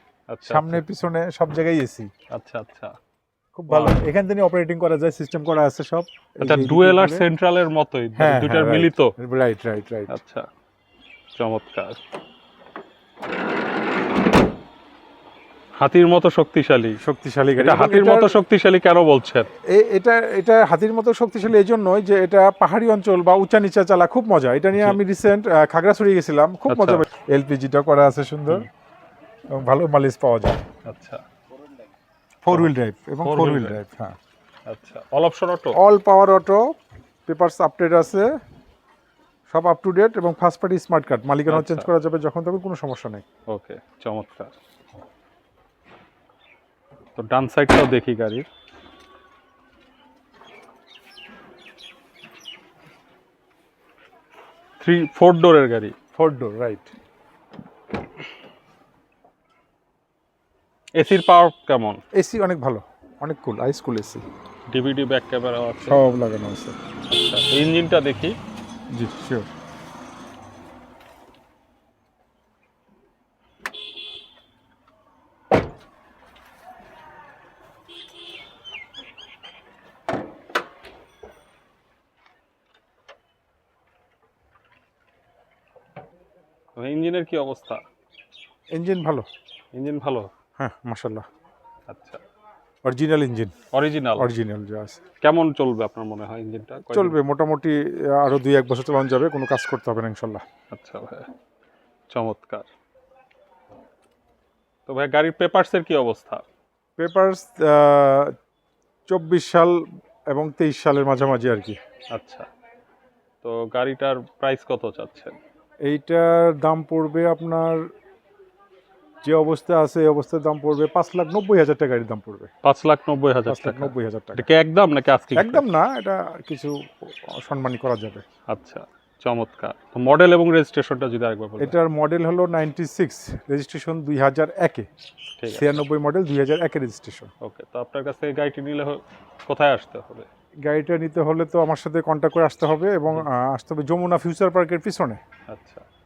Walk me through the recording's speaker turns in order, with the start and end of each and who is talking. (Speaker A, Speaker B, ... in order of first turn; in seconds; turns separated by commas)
Speaker A: 0.3-0.8, Speaker B: 0.5-2.1, Speaker A: 2.3-2.9, Speaker B: 3.5-7.3, Speaker A: 3.7-4.0, Speaker A: 6.4-9.1, Speaker B: 8.2-10.1, Speaker A: 10.1-10.5, Speaker A: 11.3-12.0, Speaker A: 15.8-17.0, Speaker B: 17.0-18.4, Speaker A: 17.6-19.5, Speaker B: 19.7-28.7, Speaker A: 26.7-27.0, Speaker B: 29.5-30.6, Speaker A: 30.8-31.2, Speaker B: 32.4-34.1, Speaker A: 33.2-33.8, Speaker A: 34.7-35.8, Speaker B: 35.7-36.7, Speaker B: 37.3-38.3, Speaker B: 39.5-43.2, Speaker A: 41.5-41.9, Speaker A: 43.5-44.5, Speaker A: 47.1-48.4, Speaker A: 54.8-55.9, Speaker B: 56.1-56.9, Speaker A: 61.0-62.0, Speaker B: 62.1-64.2, Speaker A: 64.7-66.0, Speaker B: 65.8-66.8, Speaker A: 67.1-68.3, Speaker B: 68.9-69.5, Speaker A: 86.7-87.8, Speaker B: 88.7-89.3, Speaker A: 89.7-90.3, Speaker B: 90.6-91.2, Speaker A: 91.9-92.2, Speaker B: 92.8-93.5, Speaker A: 93.7-94.3, Speaker B: 94.2-95.0, Speaker A: 95.2-97.2, Speaker B: 96.9-100.4, Speaker A: 100.7-101.3, Speaker A: 102.1-102.7, Speaker A: 104.9-106.4, Speaker B: 107.0-108.3, Speaker B: 109.1-111.8, Speaker A: 112.1-112.5, Speaker A: 113.4-115.4, Speaker B: 115.8-117.8, Speaker B: 119.2-122.5, Speaker A: 122.6-125.6, Speaker B: 123.5-124.5, Speaker B: 125.3-128.2, Speaker A: 128.5-131.8, Speaker B: 131.6-134.9, Speaker A: 135.4-135.8, Speaker B: 135.5-137.3, Speaker A: 137.4-140.3, Speaker B: 140.6-145.2, Speaker A: 145.5-145.8